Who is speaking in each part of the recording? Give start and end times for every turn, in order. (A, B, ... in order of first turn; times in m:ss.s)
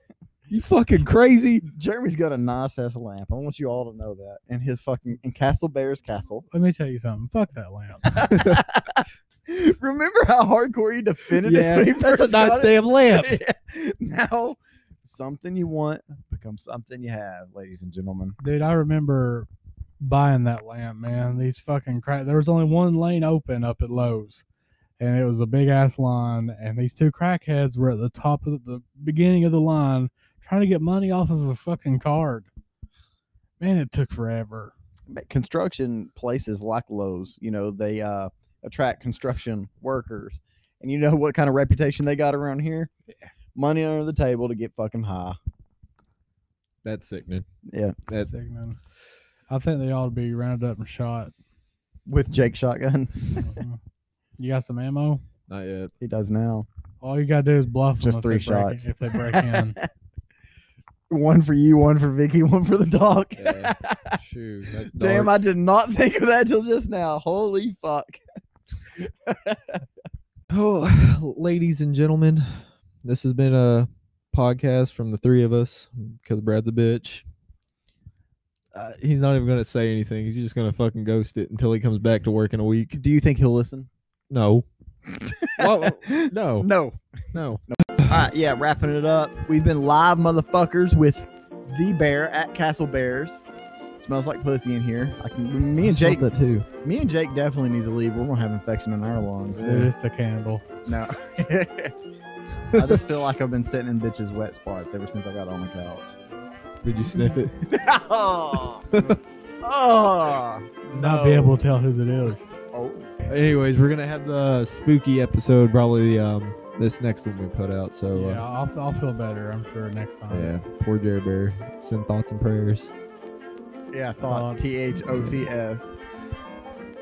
0:00.5-0:01.6 A
0:01.6-0:06.4 B
0:06.5-0:08.2 C
0:08.0-0:18.4 B
0:08.2-0:08.6 A
0:11.4-0:13.4 A
0:18.4-0:19.5 C
0:20.0-0:24.4 C
0:25.0-0:32.5 C
0:33.6-0:34.7 C
0:35.1-0:42.9 B
0:43.5-0:45.4 B
0:46.8-0:47.4 A
0:47.7-0:48.0 B
0:48.1-0:48.8 C
0:49.5-0:51.3 C
0:52.1-0:53.5 B
0:53.4-0:53.8 C
0:54.4-0:55.2 C
0:55.5-0:55.9 A
0:56.0-0:56.6 B
0:57.0-0:59.8 C
0:58.0-0:59.9 B
1:01.1-1:04.2 B
1:03.4-1:05.3 A
1:04.9-1:08.2 B
1:09.0-1:09.8 B
1:10.5-1:17.2 A
1:18.7-1:23.0 A
1:22.9-1:23.9 B
1:24.3-1:24.6 A
1:25.1-1:27.0 B
1:25.6-1:26.7 A
1:27.3-1:28.2 A
1:27.7-1:33.4 B
1:34.0-1:39.7 B
1:35.8-1:36.9 A
1:39.6-1:39.9 A
1:39.6-1:40.8 C
1:40.8-1:41.9 B
1:42.7-1:43.0 A
1:42.7-1:46.2 B
1:46.8-1:47.5 A
1:47.6-1:51.5 B
1:48.9-1:49.2 A
1:50.9-1:52.4 C
1:52.5-1:53.1 B
1:53.3-1:58.4 A
1:58.1-2:00.5 C
2:00.3-2:02.9 A
2:03.9-2:05.9 B
2:04.2-2:04.7 C